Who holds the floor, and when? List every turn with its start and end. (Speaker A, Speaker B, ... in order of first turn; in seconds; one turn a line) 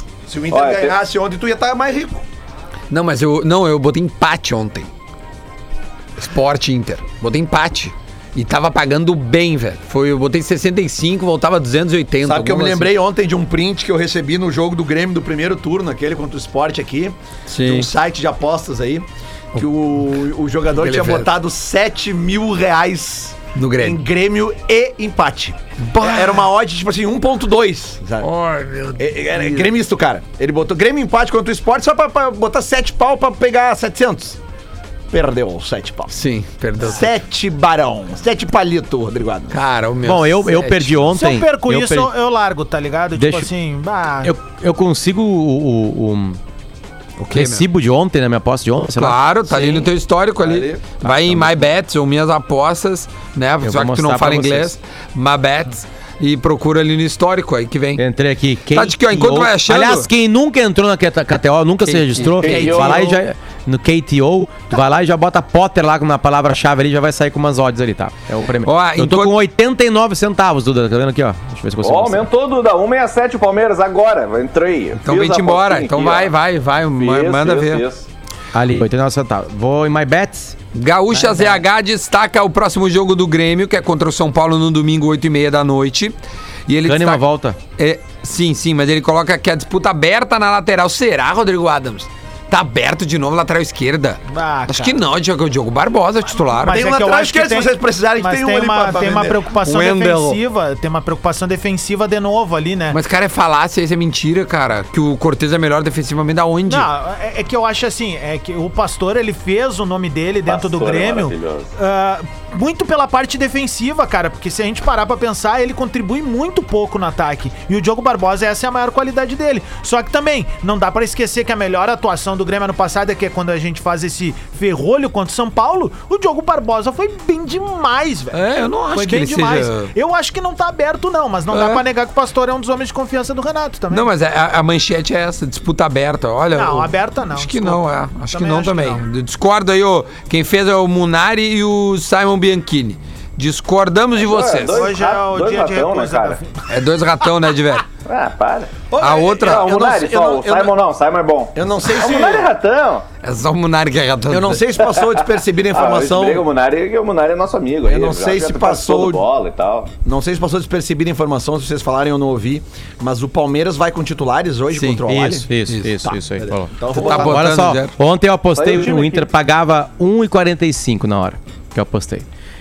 Speaker A: 0.3-2.2
Speaker B: 0.5-1.0
Speaker C: 2.9-4.9
Speaker C: 6.2-12.9
Speaker A: 12.2-28.3
Speaker C: 17.5-17.9
Speaker C: 20.7-21.3
Speaker C: 23.5-24.0
Speaker C: 25.8-26.5
Speaker C: 28.2-29.7
Speaker A: 29.0-34.4
Speaker A: 35.1-36.1
Speaker C: 36.1-37.1
Speaker A: 36.8-39.5
Speaker C: 39.5-41.0
Speaker D: 40.0-42.1
Speaker E: 41.1-44.3
Speaker D: 43.1-43.5
Speaker D: 44.2-46.4
Speaker C: 47.2-47.6
Speaker D: 47.3-49.2
Speaker C: 49.0-58.0
Speaker A: 49.5-49.8
Speaker A: 50.4-50.8
Speaker D: 51.0-51.6
Speaker D: 53.6-54.7
Speaker D: 58.0-72.2
Speaker C: 58.7-60.1
Speaker C: 61.9-62.8
Speaker B: 62.4-63.2
Speaker A: 62.4-63.2
Speaker C: 68.6-69.3
Speaker B: 71.8-76.3
Speaker C: 75.0-77.8
Speaker B: 77.0-78.0
Speaker D: 78.5-80.5
Speaker C: 80.7-86.1
Speaker D: 81.1-81.6
Speaker C: 86.7-87.2
Speaker D: 86.8-87.6
Speaker C: 87.8-96.8
Speaker E: 94.3-95.0
Speaker E: 96.5-103.0
Speaker A: 96.7-99.4
Speaker C: 99.6-100.4
Speaker C: 102.9-106.9
Speaker E: 106.7-128.4
Speaker B: 110.5-111.7
Speaker C: 128.3-129.9
Speaker E: 128.9-134.1
Speaker C: 131.5-131.8
Speaker C: 133.9-144.9
Speaker E: 136.5-139.0
Speaker B: 144.2-146.4
Speaker E: 144.7-146.5
Speaker C: 146.7-147.9
Speaker B: 148.0-148.7
Speaker A: 148.9-150.8
Speaker C: 149.0-149.7
Speaker B: 149.4-153.0
Speaker A: 151.5-152.5
Speaker C: 153.2-154.6
Speaker A: 154.3-156.5
Speaker B: 155.7-159.9
Speaker A: 157.8-159.2
Speaker A: 160.0-165.5
Speaker C: 164.7-165.0
Speaker D: 165.1-172.2
Speaker C: 165.7-165.9
Speaker A: 166.1-167.7
Speaker C: 166.9-167.9
Speaker B: 168.5-169.3